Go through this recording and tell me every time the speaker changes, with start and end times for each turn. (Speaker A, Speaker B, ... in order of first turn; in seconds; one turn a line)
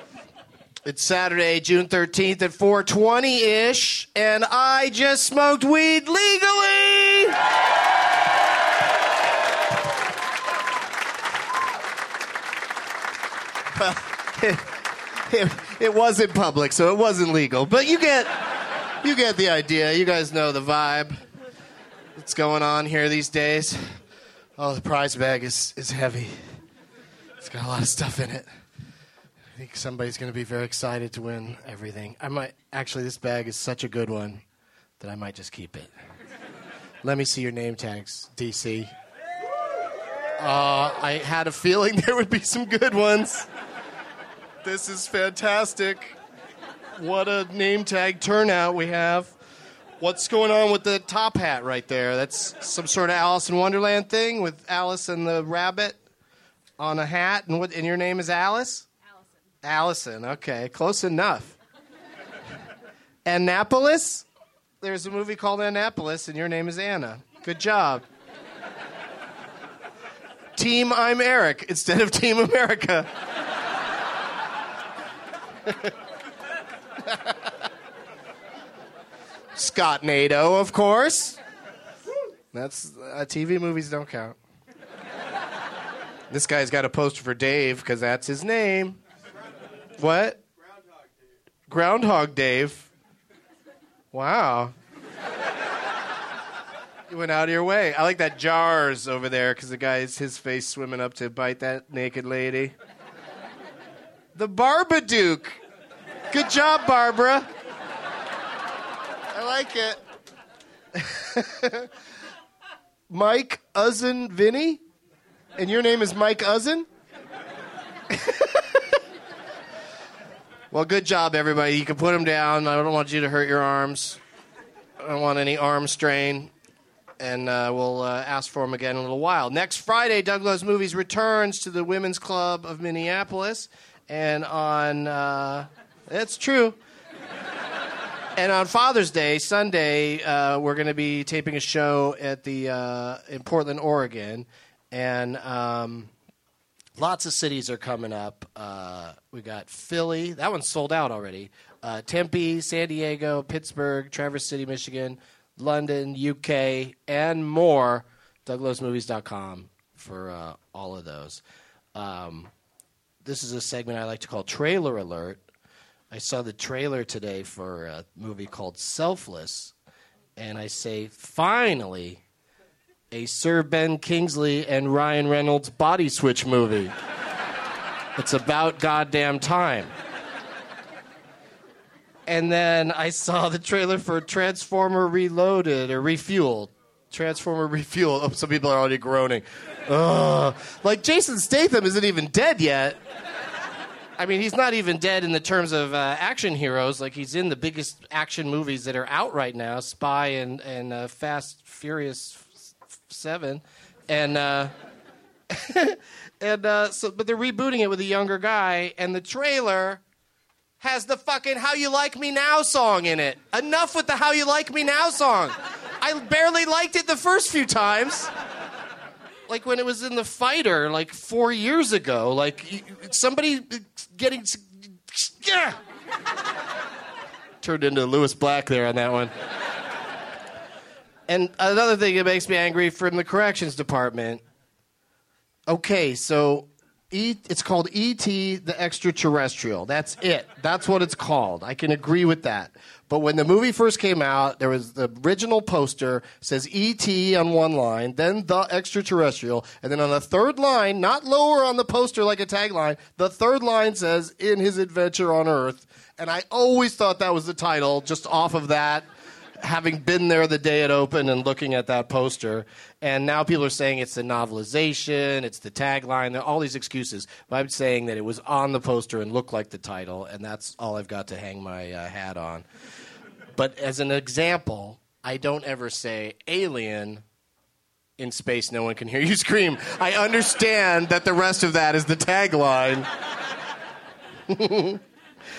Speaker A: 0.8-7.4
Speaker A: 13.8-14.7
Speaker A: 15.3-18.3
Speaker A: 19.0-21.2
Speaker A: 22.1-23.8
Speaker A: 24.6-26.4
Speaker A: 27.4-28.4
Speaker A: 29.6-34.4
Speaker A: 35.0-35.9
Speaker A: 37.0-38.9
Speaker A: 40.4-43.5
Speaker A: 44.6-46.1
Speaker A: 47.0-49.3
Speaker A: 50.0-56.0
Speaker A: 56.8-58.9
Speaker A: 59.6-61.5
Speaker A: 63.2-64.2
Speaker A: 64.8-68.0
Speaker A: 70.5-73.1
Speaker A: 79.5-81.4
Speaker A: 82.5-84.3
Speaker A: 86.3-89.0
Speaker A: 90.0-90.4
Speaker A: 91.7-92.9
Speaker A: 94.1-94.7
Speaker A: 97.1-102.7
Speaker A: 104.3-105.6
Speaker A: 106.3-107.5
Speaker A: 109.3-110.0
Speaker A: 110.9-111.9
Speaker A: 113.1-114.8
Speaker A: 115.5-116.8
Speaker A: 118.1-118.5
Speaker A: 120.7-124.2
Speaker A: 125.0-126.5
Speaker A: 127.2-136.8
Speaker A: 138.3-146.1
Speaker A: 147.0-161.4
Speaker A: 161.9-162.5
Speaker A: 163.2-165.4
Speaker A: 166.1-169.7
Speaker A: 170.4-172.2
Speaker A: 173.1-176.9
Speaker A: 178.2-179.9
Speaker A: 182.3-193.0
Speaker A: 194.2-204.7
Speaker A: 205.5-210.0
Speaker A: 210.8-218.3
Speaker A: 219.5-225.8
Speaker A: 227.6-229.3
Speaker A: 231.3-234.4
Speaker A: 235.7-259.1
Speaker A: 259.6-272.6
Speaker A: 273.5-277.2
Speaker A: 278.2-283.1
Speaker A: 284.5-285.0